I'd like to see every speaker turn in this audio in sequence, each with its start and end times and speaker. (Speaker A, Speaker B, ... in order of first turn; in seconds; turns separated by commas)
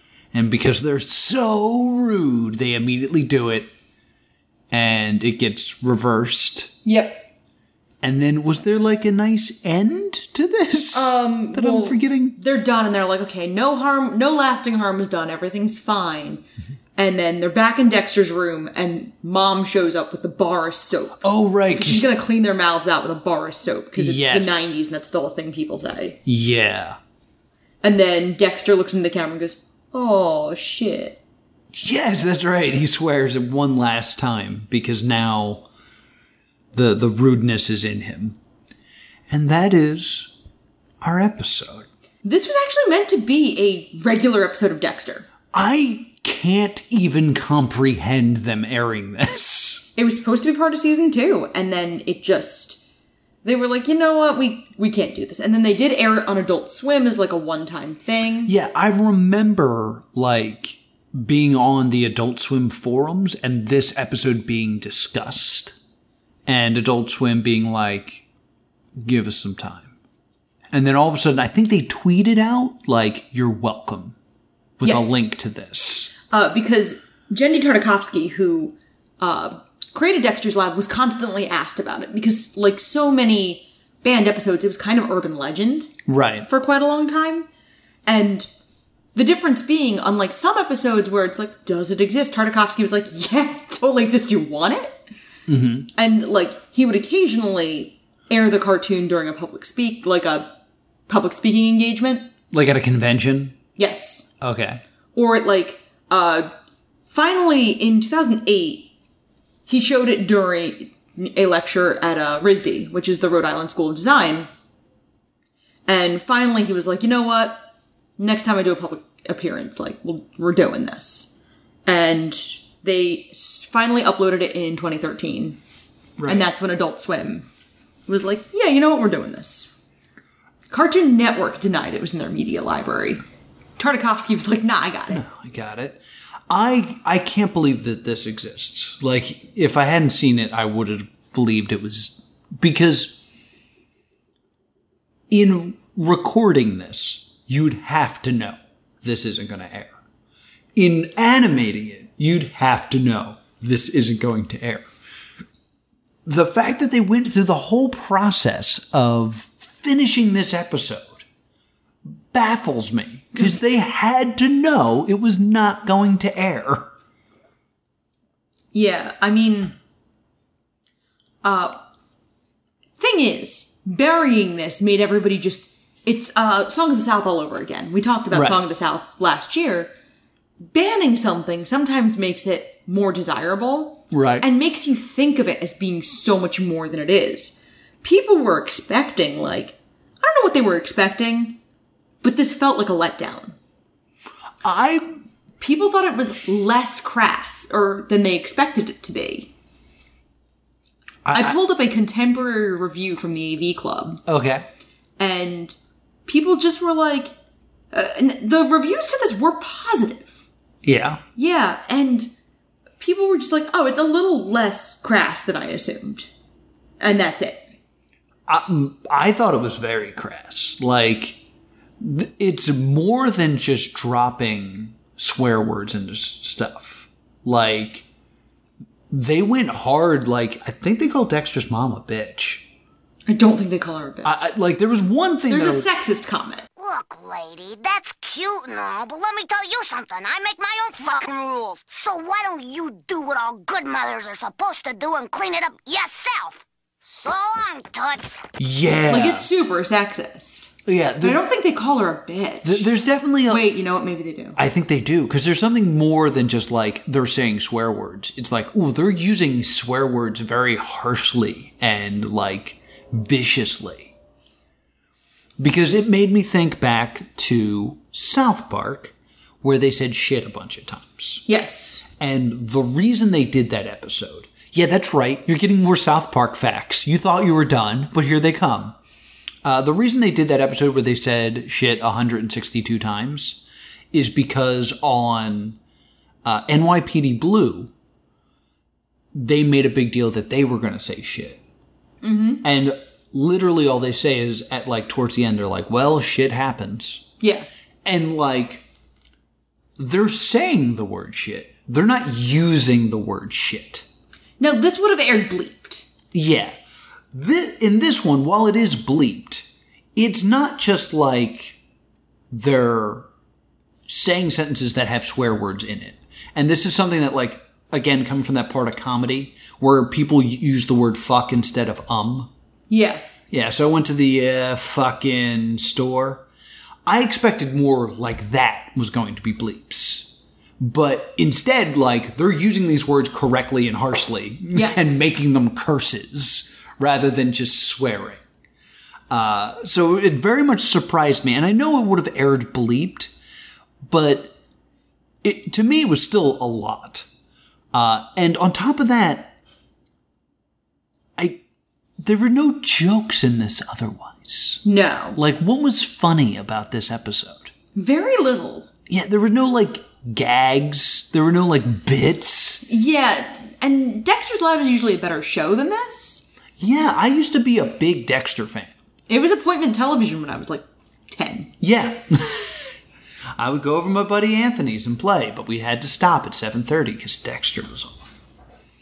Speaker A: 0.3-3.7, Speaker A: 4.7-6.7, Speaker B: 6.8-7.2, Speaker A: 8.0-12.4, Speaker B: 10.9-16.4, Speaker B: 16.9-26.2, Speaker A: 21.2-22.1, Speaker A: 23.9-24.7, Speaker A: 26.2-27.0, Speaker B: 27.8-31.2, Speaker A: 31.7-35.6, Speaker A: 36.7-38.4, Speaker A: 39.3-40.3, Speaker A: 41.0-41.9, Speaker B: 42.2-45.3, Speaker A: 45.5-49.9, Speaker B: 50.0-52.8, Speaker B: 53.4-58.5, Speaker A: 58.5-65.7, Speaker A: 66.5-68.2, Speaker A: 69.0-69.9, Speaker A: 70.7-74.1, Speaker A: 74.8-76.1, Speaker B: 74.8-75.2, Speaker B: 76.3-85.9, Speaker A: 86.1-86.5, Speaker B: 86.5-87.5, Speaker B: 88.0-88.5, Speaker B: 89.1-95.0, Speaker A: 95.5-95.9, Speaker B: 95.9-100.5, Speaker B: 101.1-102.3, Speaker A: 102.5-103.6, Speaker B: 103.8-104.3, Speaker A: 104.4-104.8, Speaker B: 105.1-106.5, Speaker B: 107.1-108.9, Speaker B: 109.7-114.5, Speaker B: 115.8-117.7, Speaker B: 118.2-125.6, Speaker A: 126.2-126.4, Speaker B: 126.2-127.5, Speaker B: 128.1-129.7, Speaker B: 130.7-133.2, Speaker B: 133.8-135.2, Speaker A: 135.1-143.2, Speaker A: 145.3-150.0, Speaker A: 150.7-154.9, Speaker A: 156.2-161.2, Speaker A: 162.3-166.9, Speaker B: 168.7-169.7, Speaker B: 171.4-171.7, Speaker B: 173.0-179.9, Speaker A: 178.3-178.6, Speaker B: 180.7-191.6, Speaker A: 184.1-184.4, Speaker B: 192.2-193.6, Speaker A: 194.6-195.1, Speaker B: 195.6-199.5, Speaker A: 201.2-201.6, Speaker B: 201.3-204.2, Speaker A: 204.3-204.7, Speaker B: 205.2-207.3, Speaker B: 207.9-210.4, Speaker A: 210.8-211.2, Speaker B: 211.3-212.3, Speaker B: 213.0-216.3, Speaker B: 217.0-217.6, Speaker A: 218.5-221.4, Speaker A: 222.0-228.0, Speaker A: 229.1-232.7, Speaker B: 233.3-234.4, Speaker A: 234.2-235.9, Speaker B: 235.5-236.7, Speaker C: 236.8-248.5, Speaker A: 248.6-249.5, Speaker B: 249.1-252.9, Speaker A: 250.8-251.4, Speaker A: 252.6-253.7, Speaker B: 253.5-254.6, Speaker A: 254.6-264.1, Speaker A: 265.6-271.4, Speaker B: 271.5-272.1, Speaker A: 272.1-278.9, Speaker A: 279.6-285.8, Speaker A: 286.4-287.9, Speaker A: 289.3-291.6, Speaker B: 292.2-292.6, Speaker A: 292.6-297.2, Speaker B: 297.4-297.7, Speaker A: 298.0-298.8, Speaker A: 300.0-304.1, Speaker B: 304.6-306.1, Speaker A: 306.3-306.8, Speaker A: 307.3-311.8, Speaker A: 312.5-313.3, Speaker A: 314.1-322.5, Speaker B: 322.9-323.2, Speaker A: 323.5-326.4, Speaker A: 327.1-338.4, Speaker B: 334.7-335.2, Speaker A: 339.3-343.3, Speaker A: 344.1-344.5, Speaker A: 345.4-347.3, Speaker A: 347.9-349.5, Speaker A: 352.2-354.8, Speaker B: 354.8-355.4, Speaker A: 355.4-357.7, Speaker B: 357.9-358.9, Speaker A: 359.1-362.8, Speaker B: 362.9-366.5, Speaker A: 366.8-368.9, Speaker B: 369.3-371.7, Speaker A: 371.8-372.8, Speaker A: 373.6-378.2